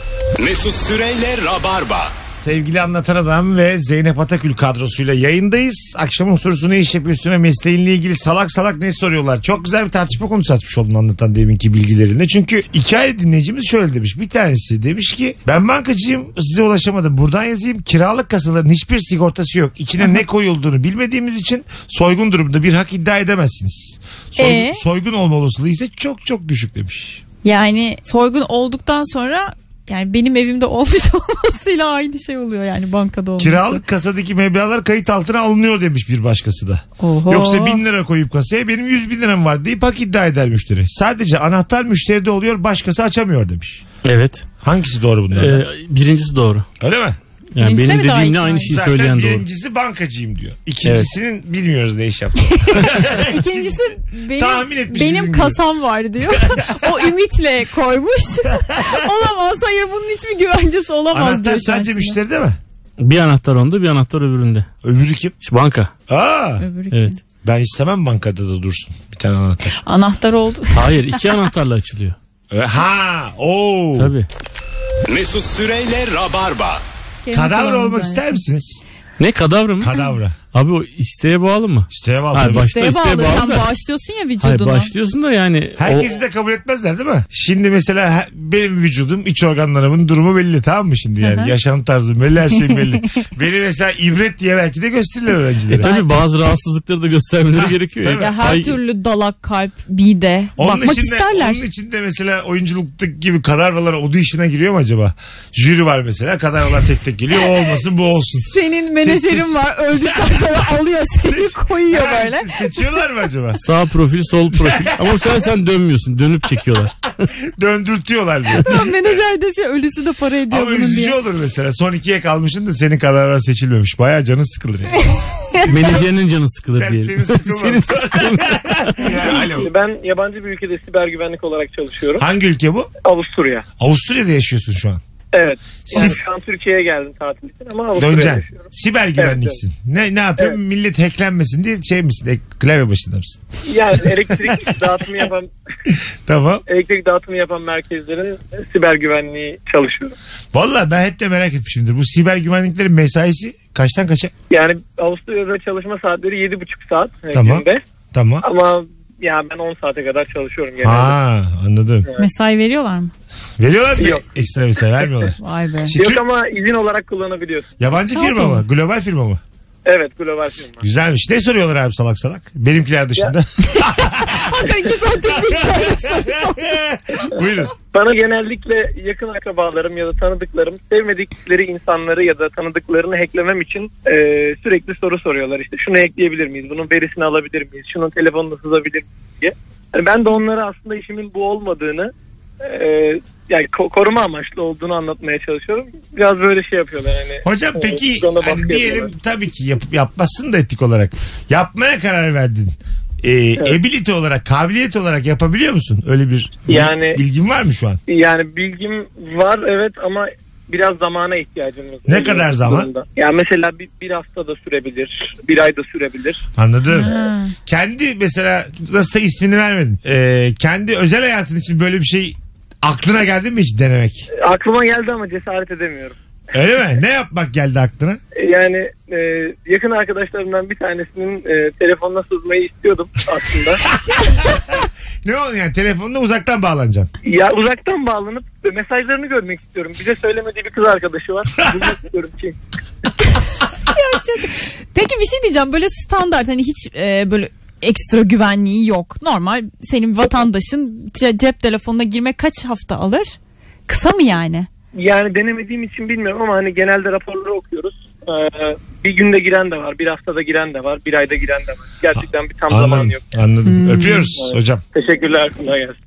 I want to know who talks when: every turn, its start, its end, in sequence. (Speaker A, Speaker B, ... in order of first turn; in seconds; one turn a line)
Speaker A: 0.4-2.1
Speaker B: 2.4-27.2
Speaker C: 24.4-24.8
Speaker C: 27.4-33.8
Speaker B: 33.4-43.8
Speaker C: 37.0-37.8
Speaker D: 44.0-44.5
Speaker B: 44.6-45.6
Speaker D: 45.3-46.6
Speaker B: 46.8-47.2
Speaker D: 47.5-49.4
Speaker C: 47.6-48.8
Speaker B: 48.5-55.6
Speaker C: 52.5-62.2
Speaker B: 56.2-56.9
Speaker B: 58.6-59.1
Speaker B: 61.1-62.6
Speaker D: 63.0-64.7
Speaker B: 64.8-65.3
Speaker D: 65.4-65.9
Speaker B: 66.1-66.6
Speaker C: 66.6-67.2
Speaker B: 67.4-69.8
Speaker C: 69.8-71.2
Speaker D: 70.7-72.2
Speaker B: 72.5-74.1
Speaker D: 74.0-74.3
Speaker A: 75.1-76.8
Speaker C: 77.2-78.4
Speaker B: 77.3-78.8
Speaker D: 79.2-80.0
Speaker B: 79.8-80.3
Speaker D: 80.5-83.7
Speaker B: 81.9-82.7
Speaker C: 82.4-84.9
Speaker D: 84.4-86.1
Speaker B: 85.8-95.9
Speaker C: 91.2-91.5
Speaker D: 95.7-98.8
Speaker C: 95.8-96.1
Speaker B: 97.6-98.3
Speaker C: 98.1-101.6
Speaker B: 100.6-110.5
Speaker C: 108.5-112.8
Speaker B: 111.2-113.6
Speaker D: 113.6-116.9
Speaker B: 114.5-115.0
Speaker B: 117.5-118.9
Speaker C: 118.6-121.2
Speaker B: 120.5-125.1
Speaker D: 125.7-129.1
Speaker B: 125.7-126.1
Speaker B: 126.8-129.7
Speaker E: 129.6-132.2
Speaker B: 132.2-132.9
Speaker E: 133.0-133.7
Speaker B: 133.8-135.0
Speaker E: 135.3-139.6
Speaker B: 135.9-136.2
Speaker B: 137.9-143.4
Speaker E: 143.7-145.5
Speaker B: 144.4-144.7
Speaker B: 145.9-146.6
Speaker E: 146.7-150.1
Speaker B: 150.5-154.3
Speaker E: 154.5-157.8
Speaker B: 157.3-158.4
Speaker E: 158.4-161.2
Speaker B: 160.8-162.1
Speaker C: 162.2-163.1
Speaker B: 163.6-166.2
Speaker E: 164.0-164.2
Speaker C: 165.4-165.9
Speaker E: 165.9-167.7
Speaker B: 167.8-169.4
Speaker C: 168.1-168.6
Speaker E: 169.8-170.8
Speaker B: 170.8-177.7
Speaker C: 173.6-176.8
Speaker E: 177.9-199.1
Speaker B: 197.4-208.0
Speaker E: 206.7-207.2
Speaker E: 208.1-216.4
Speaker B: 212.1-212.9
Speaker B: 216.6-224.3
Speaker C: 216.9-217.5
Speaker E: 224.3-226.2
Speaker B: 226.5-228.2
Speaker E: 228.4-233.8
Speaker B: 234.1-237.1
Speaker C: 234.1-234.5
Speaker E: 237.2-242.6
Speaker C: 243.9-253.4
Speaker C: 253.9-254.7
Speaker E: 254.9-263.2
Speaker B: 262.7-264.8
Speaker C: 263.6-264.3
Speaker E: 264.4-265.9